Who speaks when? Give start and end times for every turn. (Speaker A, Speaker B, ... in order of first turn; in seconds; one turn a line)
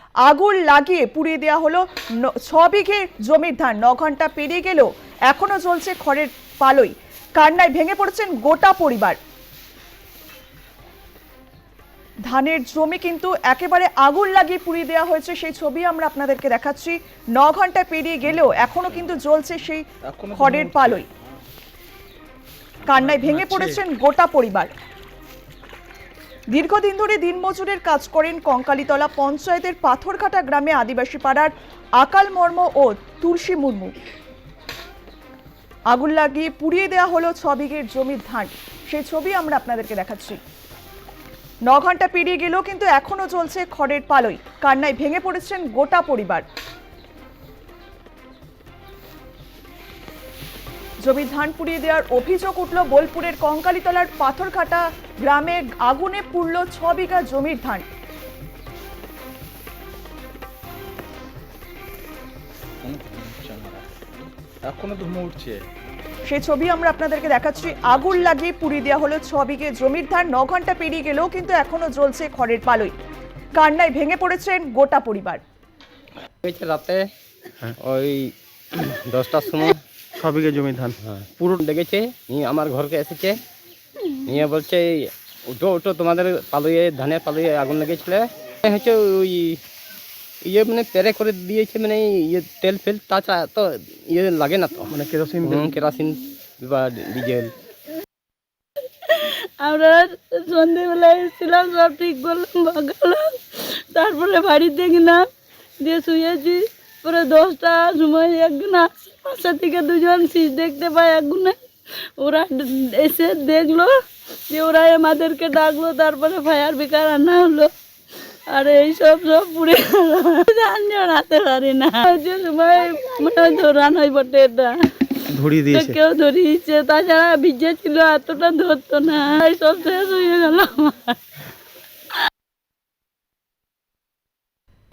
Speaker A: 0.2-9.2
Speaker A: 12.3-21.1
Speaker B: 18.2-19.2
Speaker B: 20.1-21.0
Speaker B: 22.9-23.8
Speaker A: 22.9-24.7
Speaker A: 26.5-33.9
Speaker A: 35.9-40.4
Speaker A: 41.6-46.4
Speaker A: 51.0-57.9
Speaker B: 62.8-65.6
Speaker A: 66.3-72.9
Speaker B: 67.7-68.3
Speaker A: 73.5-75.4
Speaker C: 76.4-77.1
Speaker C: 77.8-79.8
Speaker D: 80.2-81.0
Speaker C: 81.0-83.4
Speaker C: 84.2-89.6
Speaker C: 90.4-97.5
Speaker D: 94.9-95.7
Speaker E: 99.0-105.2
Speaker E: 105.8-111.6
Speaker E: 112.2-113.9
Speaker E: 114.5-117.7
Speaker E: 118.5-124.8
Speaker D: 125.4-125.8
Speaker E: 125.5-131.2